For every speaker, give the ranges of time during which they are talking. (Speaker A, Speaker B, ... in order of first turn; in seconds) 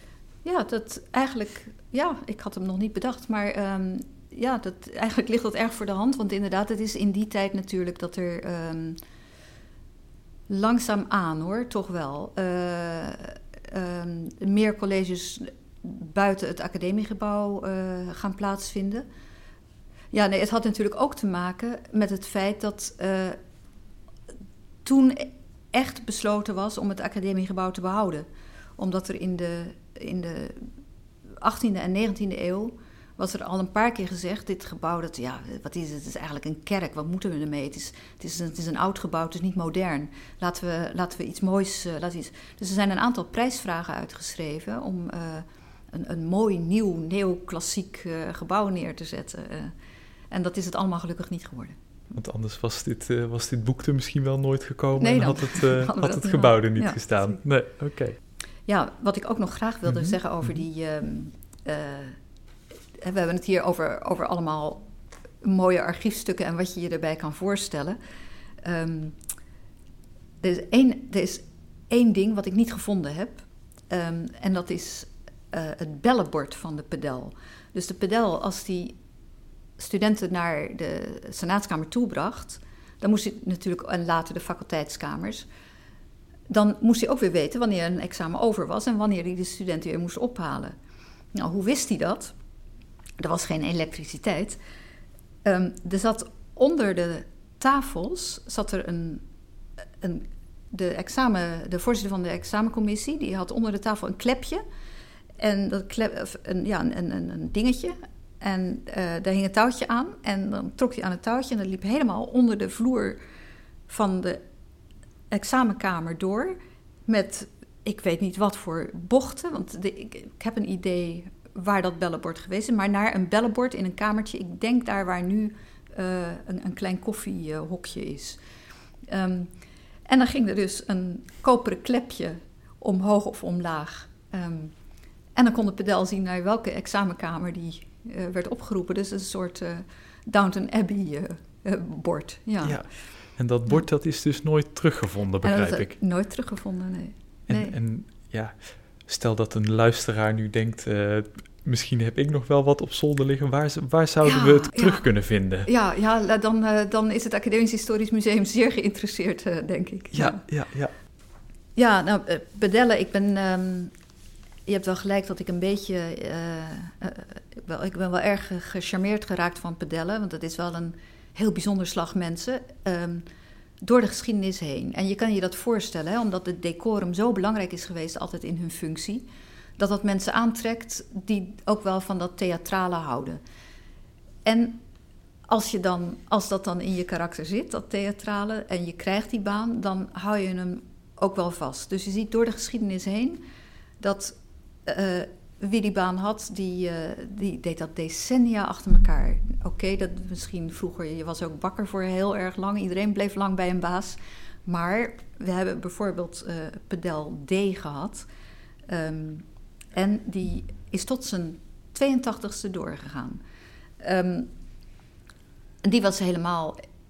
Speaker A: 0.4-9.0, 10.5-19.1, 20.1-23.4, 24.9-28.2, 28.8-30.7, 31.4-49.7, 50.3-51.8, 55.0-57.4, 58.7-62.2, 63.0-64.8, 65.4-68.0, 68.6-69.2, 70.4-79.0, 79.8-85.5, 86.5-90.7, 91.3-92.3, 93.2-94.6, 95.4-99.2, 100.0-104.6, 105.4-113.2, 113.9-114.4, 115.3-128.4, 129.1-129.5, 130.1-134.7, 135.4-142.8, 145.4-147.8, 154.2-155.0, 155.6-160.4, 161.8-163.9, 164.7-173.2, 173.8-179.2, 179.8-183.4, 184.4-184.8, 185.5-193.4, 194.0-208.3, 208.9-213.4, 214.0-214.5, 215.8-216.8
Speaker B: 52.1-58.2, 59.9-60.1, 142.6-145.9, 147.5-155.7, 160.1-160.9